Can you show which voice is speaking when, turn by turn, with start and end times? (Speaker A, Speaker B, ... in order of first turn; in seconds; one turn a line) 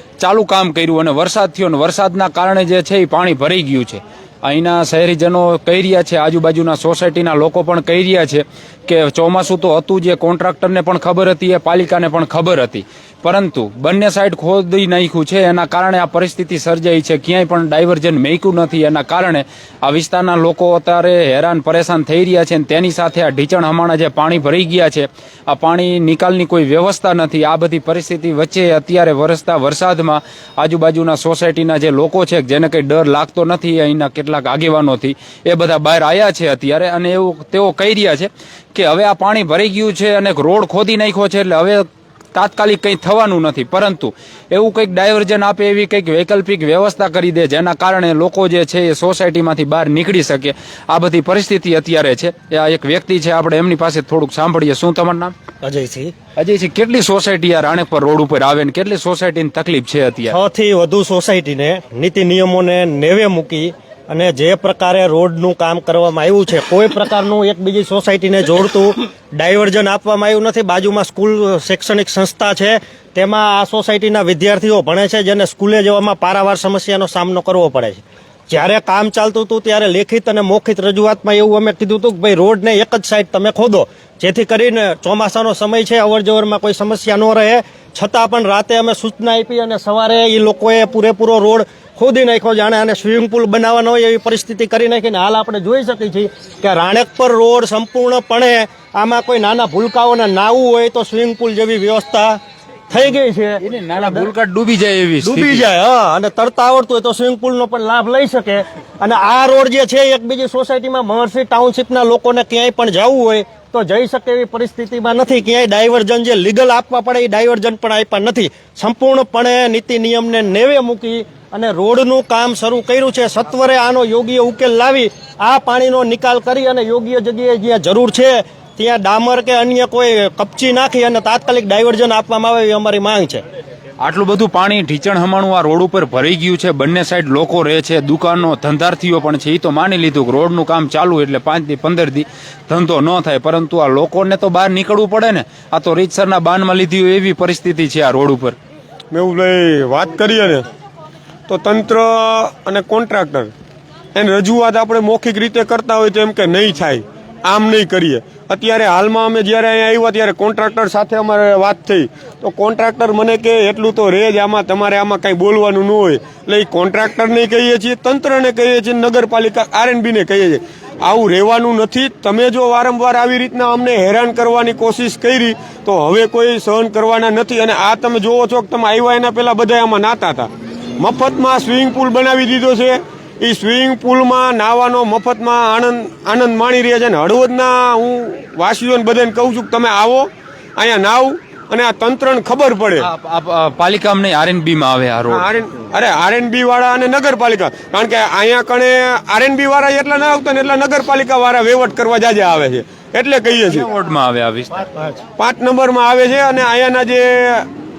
Speaker A: 0.2-55.3
Speaker B: 55.6-56.1
Speaker A: 56.4-60.3
Speaker B: 60.3-104.3
Speaker A: 103.6-105.7
Speaker B: 105.2-133.4
Speaker A: 134.0-148.6
Speaker C: 149.1-150.6
Speaker C: 151.5-153.5
Speaker C: 154.1-193.1
Speaker A: 193.0-195.4
Speaker C: 195.3-203.9
Speaker A: 203.7-204.9
Speaker C: 205.4-207.7